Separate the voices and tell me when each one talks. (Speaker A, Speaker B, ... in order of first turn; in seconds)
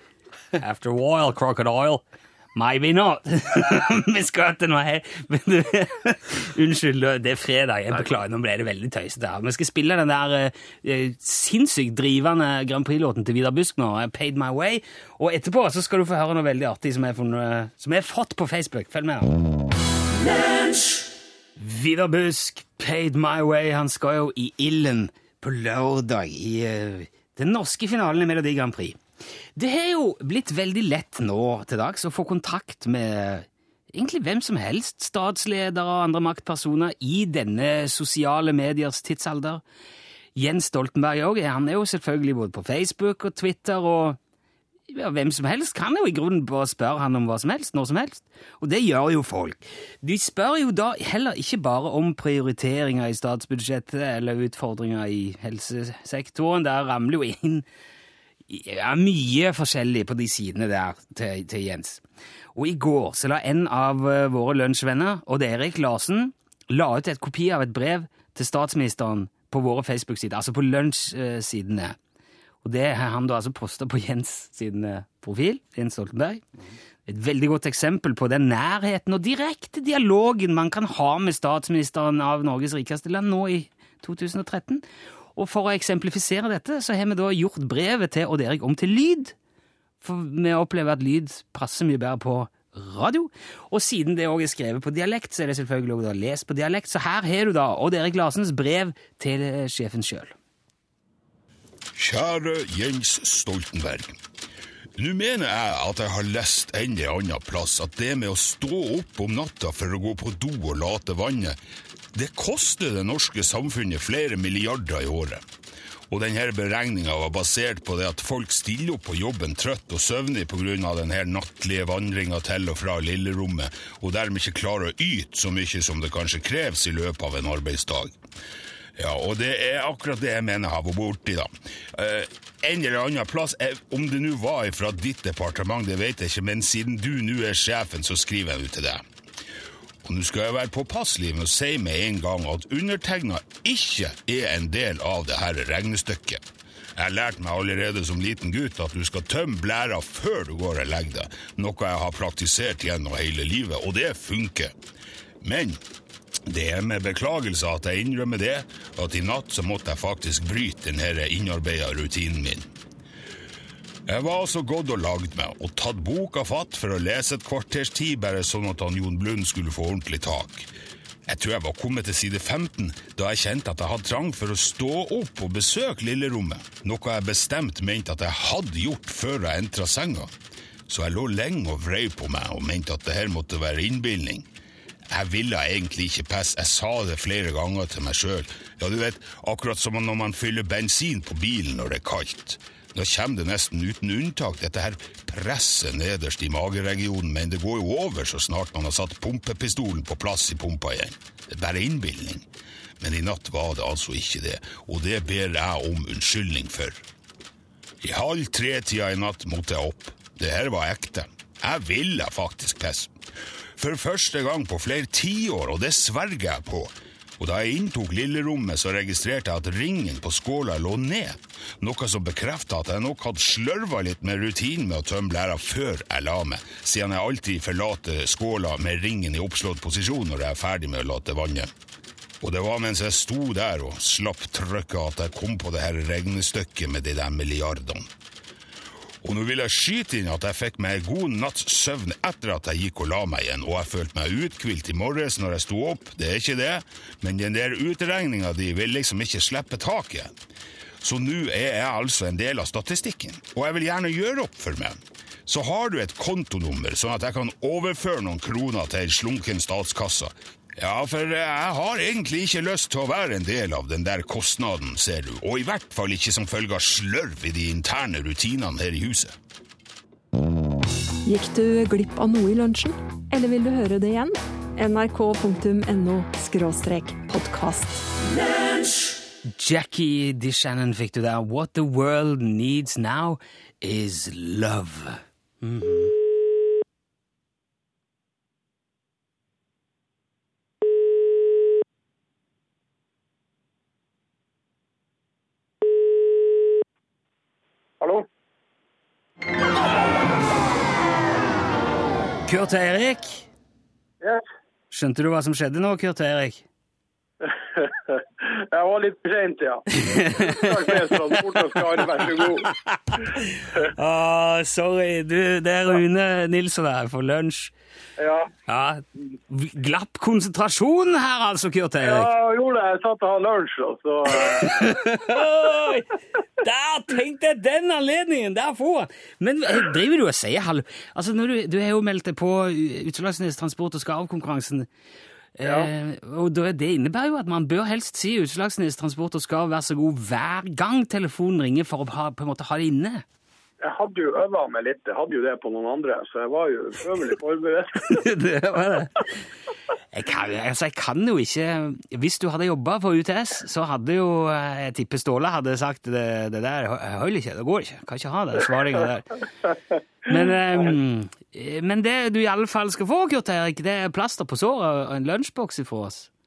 Speaker A: 0.6-2.0, 2.5-19.3, 21.6-29.0, 29.6-39.6, 40.4-44.2, 44.9-57.7, 58.5-62.0, 62.5-72.0, 72.6-76.4, 77.1-84.8, 85.4-89.4, 90.0-100.3, 279.5-286.1, 302.5-303.5, 304.9-306.6, 309.9-311.4, 312.2-317.7, 318.7-322.3, 324.3-334.9, 335.6-343.2, 348.0-349.3, 350.1-359.4, 360.3-366.3
Speaker B: 102.0-104.2, 105.0-111.6, 112.1-115.4, 116.1-128.1, 129.0-139.0, 140.0-146.4, 147.0-154.7, 155.4-155.8, 156.5-162.7, 164.1-170.7, 171.3-180.3, 180.9-184.5, 185.1-202.4, 203.0-207.0, 208.0-213.1, 213.8-231.7, 232.4-238.1, 239.2-250.3, 251.0-269.4
Speaker C: 271.3-278.1
Speaker D: 298.0-298.3, 307.4-312.7, 318.2-318.5, 322.0-324.9, 335.6-335.9, 343.8-348.2